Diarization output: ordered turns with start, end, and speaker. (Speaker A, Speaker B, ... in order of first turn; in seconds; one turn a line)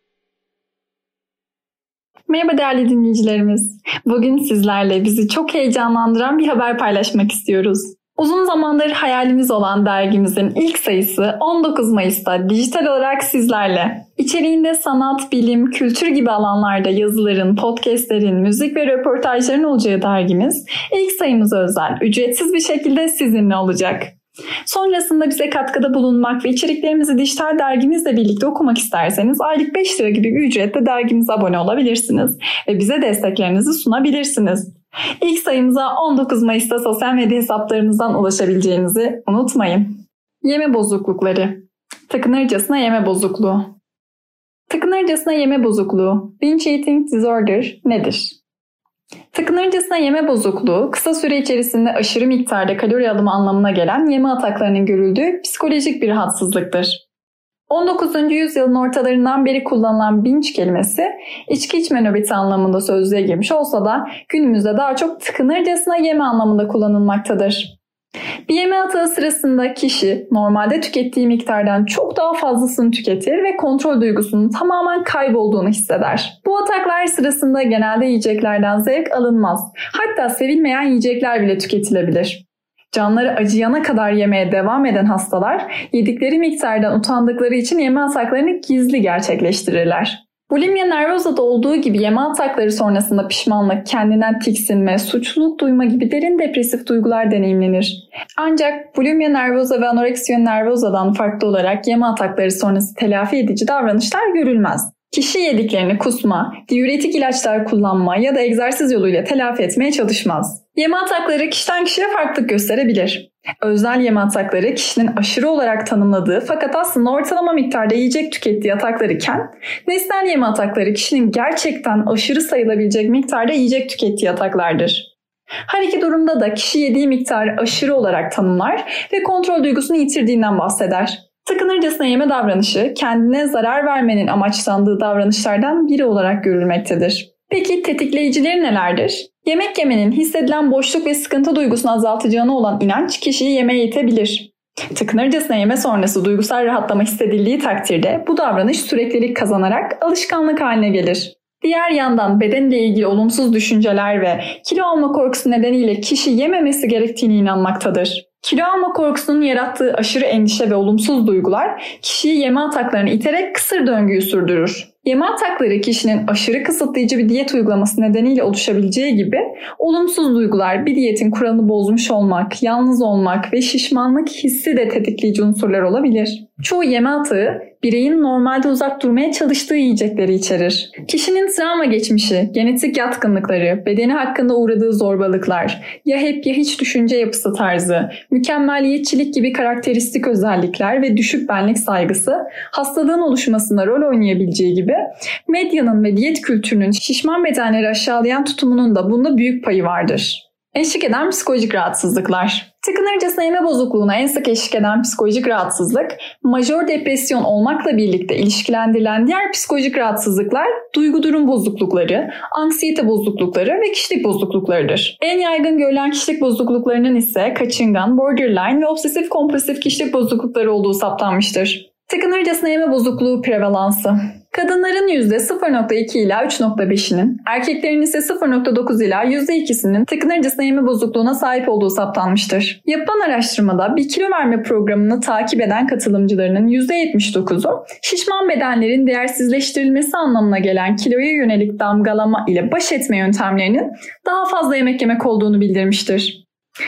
Speaker A: 2.3-24.1
Speaker A: 24.7-43.7
Speaker A: 44.7-48.4
Speaker A: 49.3-57.0
Speaker A: 57.7-67.7
Speaker A: 68.5-125.1
Speaker A: 125.7-246.4